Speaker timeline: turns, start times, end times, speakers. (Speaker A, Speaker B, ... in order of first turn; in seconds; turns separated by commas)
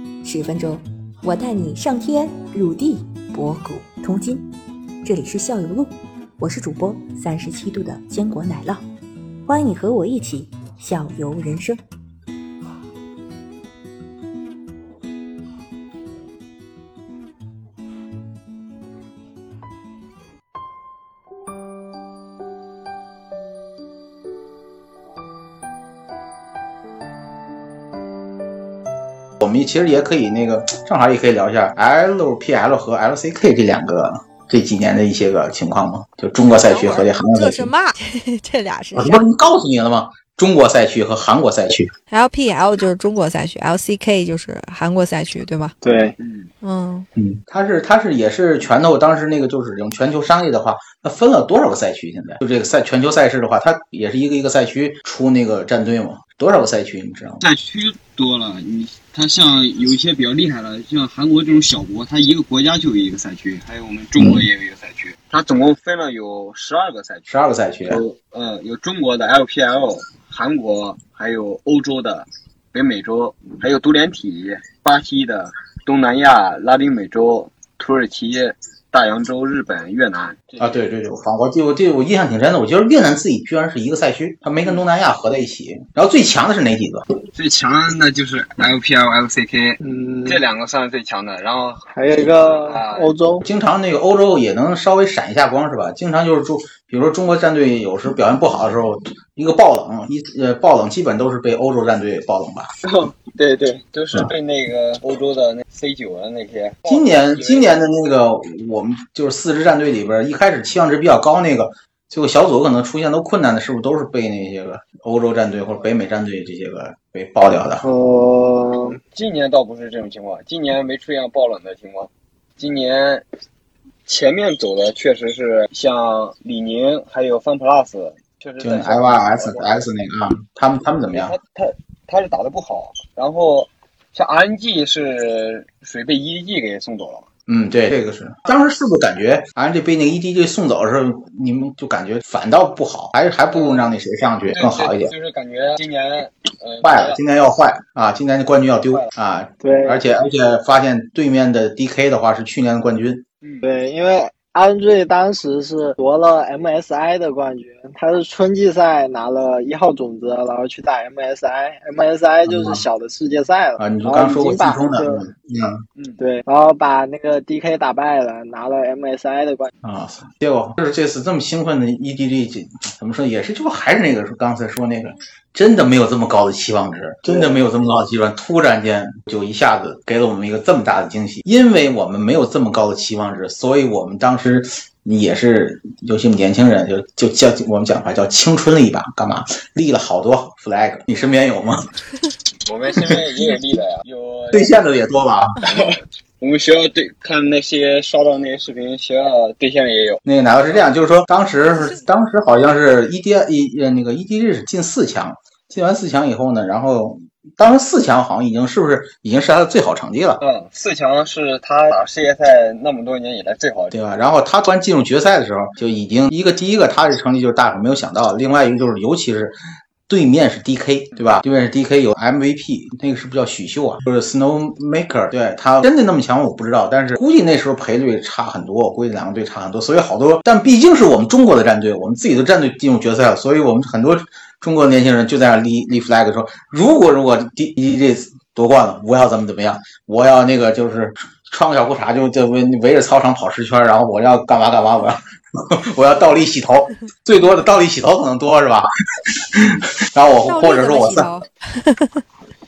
Speaker A: 0.2-4.5, Speaker A: 5.0-8.8, Speaker A: 9.5-11.8, Speaker B: 29.4-37.7, Speaker C: 36.6-39.2, Speaker B: 39.0-41.9, Speaker C: 42.1-45.7, Speaker D: 45.8-46.1, Speaker E: 46.2-46.5, Speaker C: 46.6-47.1, Speaker B: 47.1-57.4, Speaker E: 57.4-67.3, Speaker B: 64.2-64.4, Speaker B: 67.3-68.0, Speaker E: 67.9-80.9, Speaker B: 80.6-87.0, Speaker E: 87.3-93.1, Speaker D: 89.8-90.4, Speaker D: 91.9-93.5, Speaker B: 93.4-102.7, Speaker E: 102.8-107.8, Speaker B: 106.8-117.9, Speaker E: 115.7-116.2, Speaker D: 117.8-119.0, Speaker E: 119.1-123.2, Speaker E: 124.0-129.8, Speaker B: 128.6-131.3, Speaker E: 131.1-137.3, Speaker B: 137.5-145.1, Speaker E: 143.5-143.9, Speaker E: 144.5-147.2, Speaker B: 146.8-153.2, Speaker E: 148.8-149.1, Speaker D: 149.6-150.1, Speaker D: 153.6-165.2, Speaker B: 162.4-162.8, Speaker B: 163.8-165.8, Speaker E: 165.9-166.2, Speaker D: 166.2-169.7, Speaker B: 169.8-191.9, Speaker D: 177.2-177.9, Speaker E: 192.7-194.8, Speaker B: 194.5-195.6, Speaker E: 195.6-200.9, Speaker B: 200.2-210.4, Speaker E: 210.4-214.0, Speaker B: 213.9-251.3, Speaker C: 250.4-252.2